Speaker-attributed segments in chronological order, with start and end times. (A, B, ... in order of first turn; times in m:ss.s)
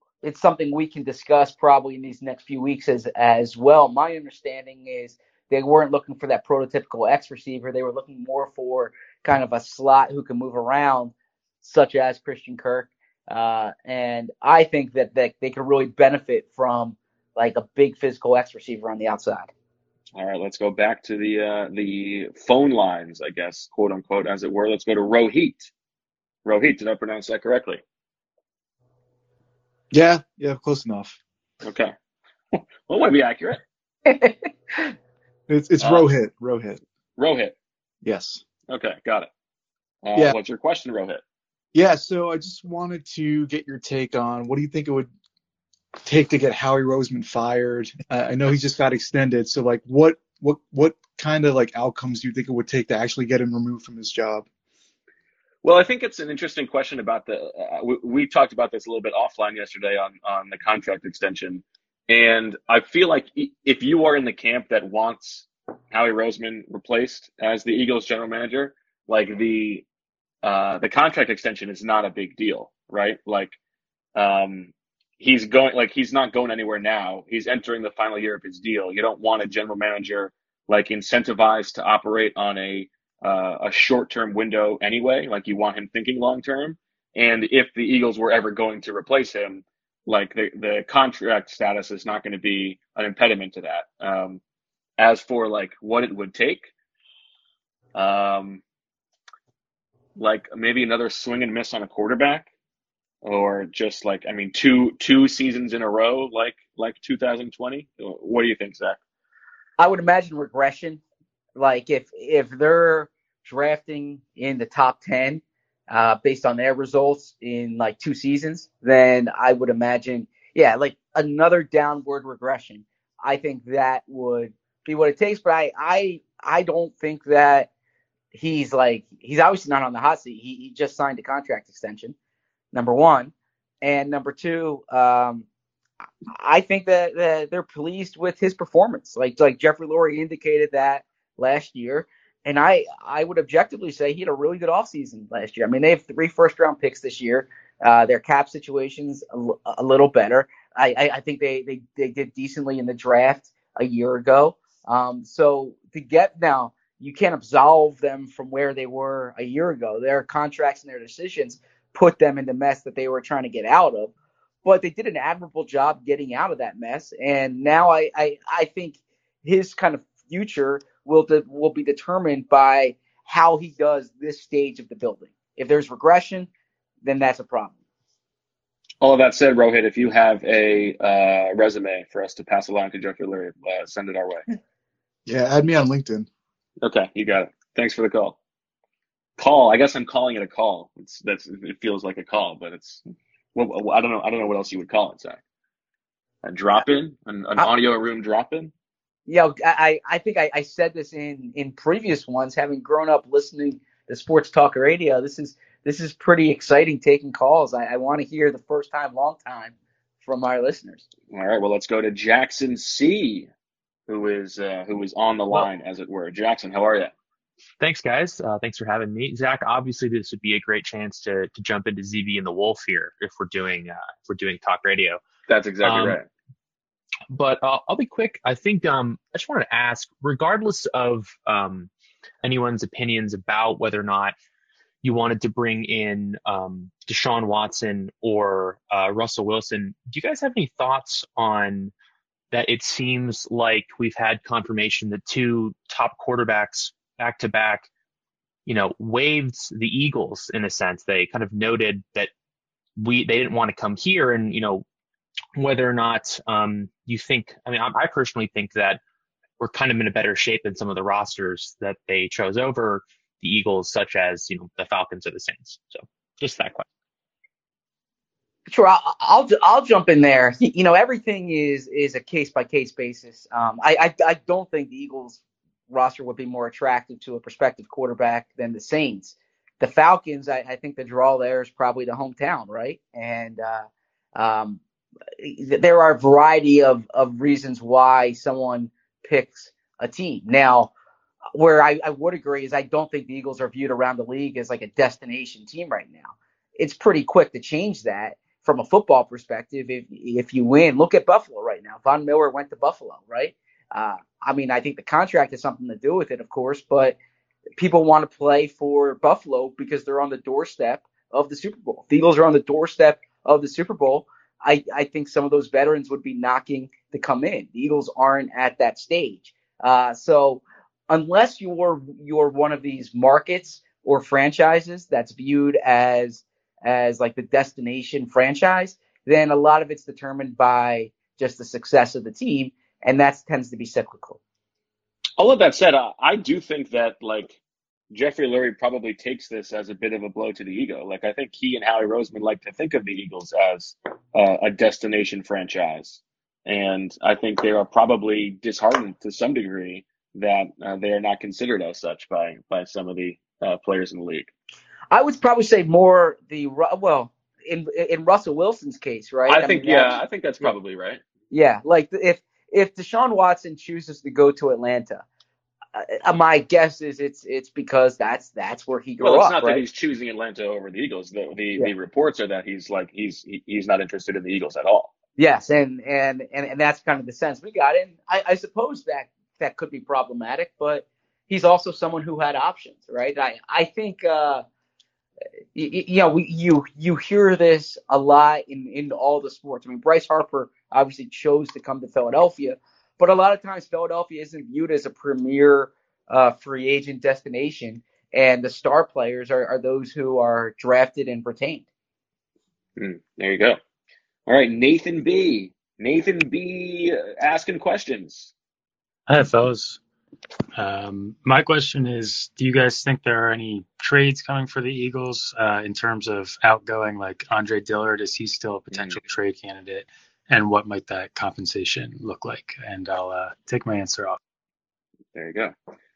0:00.2-0:19.5 A
0:20.1-0:25.7 B
0:26.4-0:27.8 B
0:29.9-0:31.2 C
0:31.6-0:31.9 B
0:32.5-0:33.6 B
0:34.0-0:34.9 A
0:35.5-0:36.8 C
0:35.8-0:36.1 B
0:37.2-0:37.5 B
0:38.0-0:38.4 C
0:38.7-0:39.3 B
0:40.0-0:41.2 B
0:41.7-0:45.1 C
0:46.0-0:54.5 C
0:55.6-1:09.8 B
1:10.4-1:13.6 B
1:14.2-1:34.4 B
1:35.0-1:36.7 B
1:37.9-1:38.6 B
1:40.2-1:42.5 B
1:43.2-1:49.0 B
1:49.8-1:51.0 A
1:51.6-2:07.7 A
2:08.3-2:12.1 A
2:12.7-2:15.4 A
2:16.3-2:44.1 A
2:44.6-2:56.5 A
2:57.0-2:57.8 A
2:59.0-3:04.4 B
3:05.3-3:06.3 C
3:06.8-3:08.4 B
3:09.4-3:13.0 B
3:13.5-3:15.4 B
3:16.4-3:18.7 B
3:19.3-3:31.0 A
3:31.3-3:33.5 B
3:34.1-3:37.1 B
3:37.8-3:45.2 D
3:45.5-3:46.2 B
3:45.8-3:46.2 D
3:47.3-3:51.9 D
3:52.4-3:54.4 D
3:55.0-4:01.9 D
4:02.5-4:07.9 D
4:08.6-4:12.3 D
4:13.0-4:14.8 D
4:15.6-4:19.0 D
4:19.6-4:26.8 D
4:28.6-4:44.8 A
4:45.4-4:50.9 A
4:51.5-5:07.2 A
5:07.8-5:34.4 A
5:35.4-5:37.6 B
5:38.1-5:54.5 B
5:55.1-6:00.7 A
5:59.5-6:01.2 B
6:01.5-6:05.2 A
6:05.9-6:09.8 A
6:09.2-6:15.1 B
6:15.4-6:24.6 A
6:25.7-6:41.8 A
6:43.0-6:43.8 B
6:44.5-6:48.5 B
6:49.3-6:50.0 E
6:50.7-7:04.4 E
6:58.9-6:59.2 B
7:05.3-7:05.7 B